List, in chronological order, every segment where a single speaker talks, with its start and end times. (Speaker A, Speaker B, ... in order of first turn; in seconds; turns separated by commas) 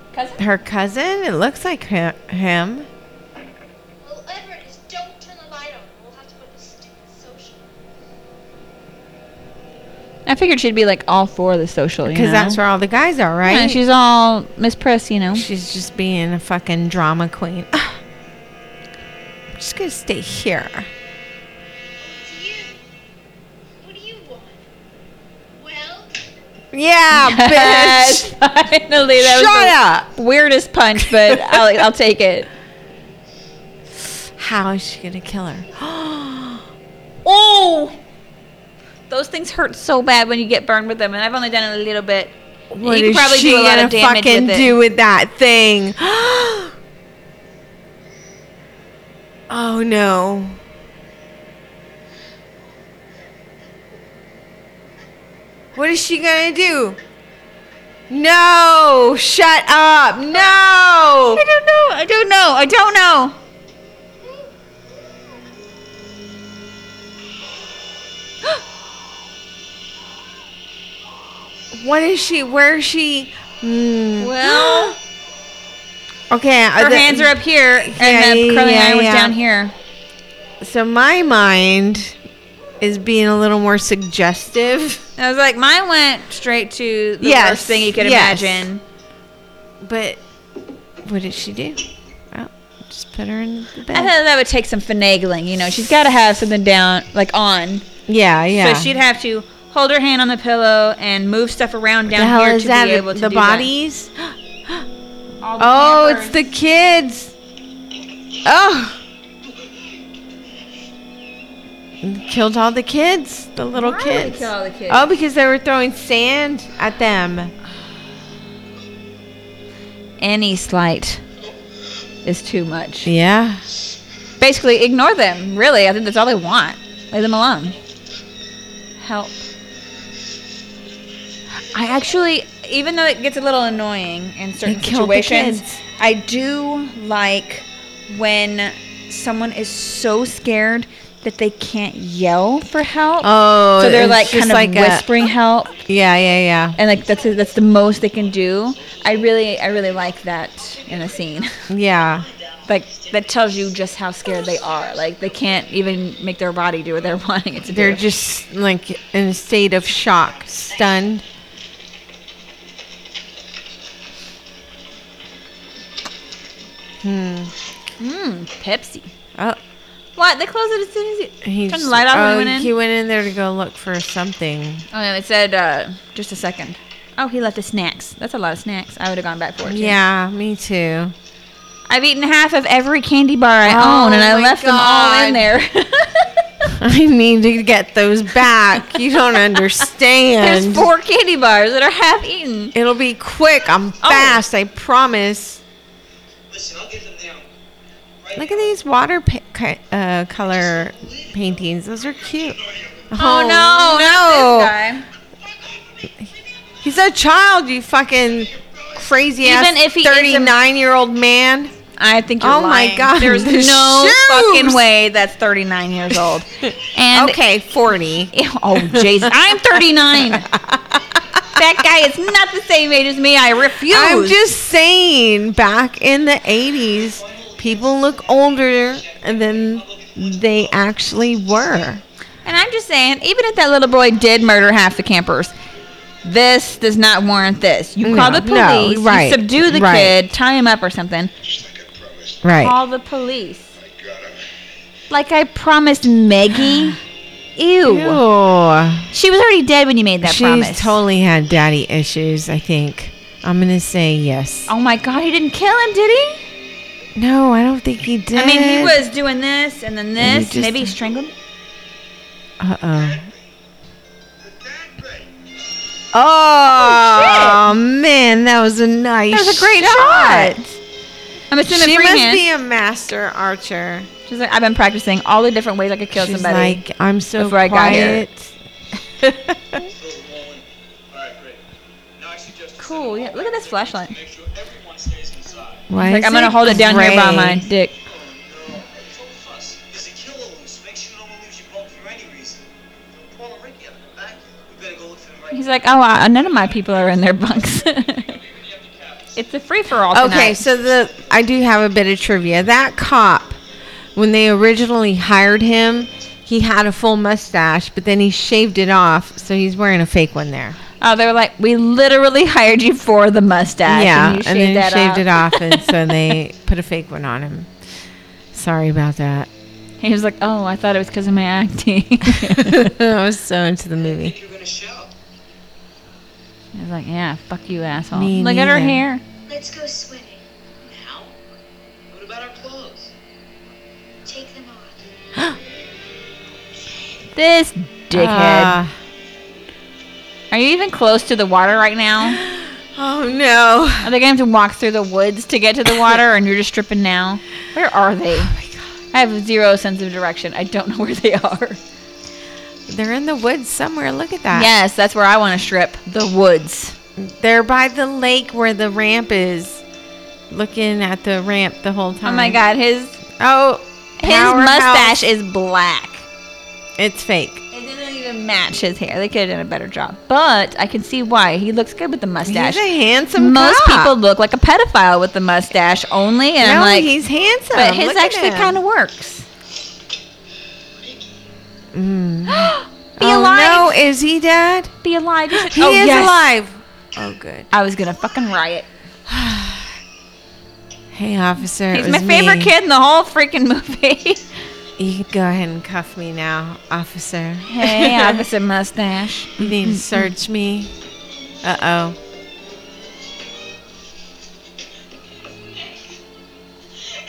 Speaker A: 0.1-0.4, Speaker B: 0.4-2.9, Speaker C: 4.0-7.7, Speaker A: 10.3-12.6, Speaker B: 12.1-13.8, Speaker A: 13.4-15.4, Speaker B: 15.3-18.0, Speaker B: 19.6-20.9, Speaker C: 22.0-22.8, Speaker C: 23.8-24.6, Speaker C: 25.6-26.2, Speaker B: 26.7-28.3, Speaker A: 27.1-32.5, Speaker B: 29.1-30.1, Speaker B: 31.0-31.8, Speaker B: 34.4-36.6, Speaker A: 37.2-38.0, Speaker A: 39.1-44.8, Speaker B: 42.7-46.7, Speaker B: 49.5-50.6, Speaker B: 55.8-57.0, Speaker B: 58.1-61.4, Speaker A: 61.3-63.4, Speaker C: 64.2-64.5, Speaker B: 71.7-75.0, Speaker A: 74.2-75.0, Speaker B: 76.3-79.4, Speaker A: 76.8-79.7, Speaker B: 80.6-82.2, Speaker B: 82.8-85.0, Speaker A: 85.2-88.8, Speaker B: 87.2-88.7, Speaker B: 89.8-90.2, Speaker B: 91.0-94.1, Speaker A: 93.9-97.9, Speaker B: 98.1-98.9, Speaker A: 98.5-103.7, Speaker B: 102.1-104.9, Speaker A: 105.4-106.5, Speaker B: 105.6-107.3, Speaker B: 108.5-109.0, Speaker B: 112.0-117.5, Speaker A: 113.8-115.1, Speaker A: 120.2-121.2, Speaker A: 122.2-123.1, Speaker B: 123.0-123.6, Speaker A: 124.4-127.8, Speaker A: 129.0-129.4, Speaker A: 131.7-145.8, Speaker B: 134.7-135.8, Speaker B: 143.2-145.1, Speaker B: 145.8-146.8, Speaker A: 146.8-151.5, Speaker D: 146.9-151.2, Speaker B: 151.7-152.3, Speaker D: 152.1-153.1, Speaker A: 152.7-158.1, Speaker D: 154.8-155.6, Speaker B: 157.7-161.2, Speaker B: 167.0-167.5, Speaker A: 168.0-169.1, Speaker A: 170.2-172.7, Speaker B: 171.4-174.8, Speaker A: 174.9-180.0, Speaker B: 179.6-181.1, Speaker A: 181.9-186.4, Speaker B: 183.7-185.5, Speaker B: 186.7-190.9, Speaker A: 190.4-192.8, Speaker B: 192.7-195.6, Speaker A: 194.0-194.4, Speaker D: 196.5-197.5, Speaker D: 198.2-198.8, Speaker B: 198.4-202.6, Speaker D: 200.5-203.1, Speaker B: 203.1-204.8, Speaker A: 203.2-205.1, Speaker B: 206.8-211.7, Speaker D: 208.5-209.2, Speaker A: 209.4-210.6, Speaker A: 212.0-217.4, Speaker B: 212.4-214.8, Speaker B: 216.6-221.2, Speaker A: 218.3-220.5, Speaker A: 221.6-224.4, Speaker B: 223.9-232.0, Speaker D: 226.9-232.0, Speaker A: 232.4-235.5, Speaker A: 236.2-241.3, Speaker B: 238.0-240.2, Speaker E: 241.4-242.5, Speaker B: 242.4-242.8, Speaker A: 242.6-243.7, Speaker E: 243.8-244.5, Speaker A: 245.1-247.0, Speaker B: 246.5-246.9, Speaker A: 247.6-248.2, Speaker B: 247.8-249.1, Speaker A: 249.1-251.0, Speaker B: 250.2-254.7, Speaker A: 254.7-256.4, Speaker B: 257.1-259.0, Speaker A: 258.4-261.3, Speaker B: 260.2-260.9, Speaker B: 262.6-263.3, Speaker E: 264.5-264.8, Speaker D: 264.5-265.2, Speaker B: 266.1-270.8, Speaker A: 266.7-267.6, Speaker A: 269.3-270.6, Speaker A: 271.5-272.4, Speaker B: 271.7-274.1, Speaker A: 274.3-276.8, Speaker B: 276.1-278.5, Speaker A: 277.4-278.2, Speaker B: 279.2-279.8, Speaker D: 279.9-281.6, Speaker D: 282.2-285.9, Speaker A: 282.8-284.1, Speaker B: 285.9-287.6, Speaker A: 285.9-287.9, Speaker D: 288.0-295.6, Speaker A: 295.5-298.4, Speaker D: 296.4-297.6, Speaker D: 298.2-299.4, Speaker A: 299.4-300.7, Speaker B: 300.1-303.6, Speaker D: 300.8-301.1, Speaker B: 304.2-310.8, Speaker A: 311.0-315.9, Speaker B: 313.9-317.7, Speaker B: 318.5-319.5, Speaker A: 320.0-322.8, Speaker B: 322.3-324.3, Speaker D: 324.0-325.1, Speaker A: 326.8-329.2, Speaker B: 328.1-329.0, Speaker C: 329.5-330.5, Speaker D: 330.9-331.3, Speaker D: 332.1-333.1, Speaker C: 334.2-335.1, Speaker A: 337.4-338.8, Speaker B: 338.1-338.9, Speaker A: 340.5-342.4, Speaker B: 342.2-344.1, Speaker A: 344.0-348.6, Speaker B: 348.4-348.9, Speaker A: 349.1-351.8, Speaker B: 352.9-354.7, Speaker A: 354.5-357.0, Speaker B: 357.2-359.8, Speaker B: 360.5-362.6, Speaker A: 362.2-363.2, Speaker B: 363.4-365.2, Speaker A: 364.2-366.3, Speaker B: 367.0-367.6, Speaker A: 367.7-372.8, Speaker B: 372.5-374.1, Speaker A: 373.4-377.1, Speaker B: 376.6-378.8, Speaker A: 377.7-379.5, Speaker B: 381.9-384.9, Speaker A: 382.5-384.0, Speaker A: 385.0-386.5, Speaker B: 385.5-387.7, Speaker A: 387.7-388.9, Speaker B: 389.3-389.9, Speaker B: 391.1-392.7, Speaker A: 391.9-394.4, Speaker B: 395.0-398.4, Speaker A: 397.7-400.3, Speaker B: 399.6-400.9, Speaker B: 401.6-402.2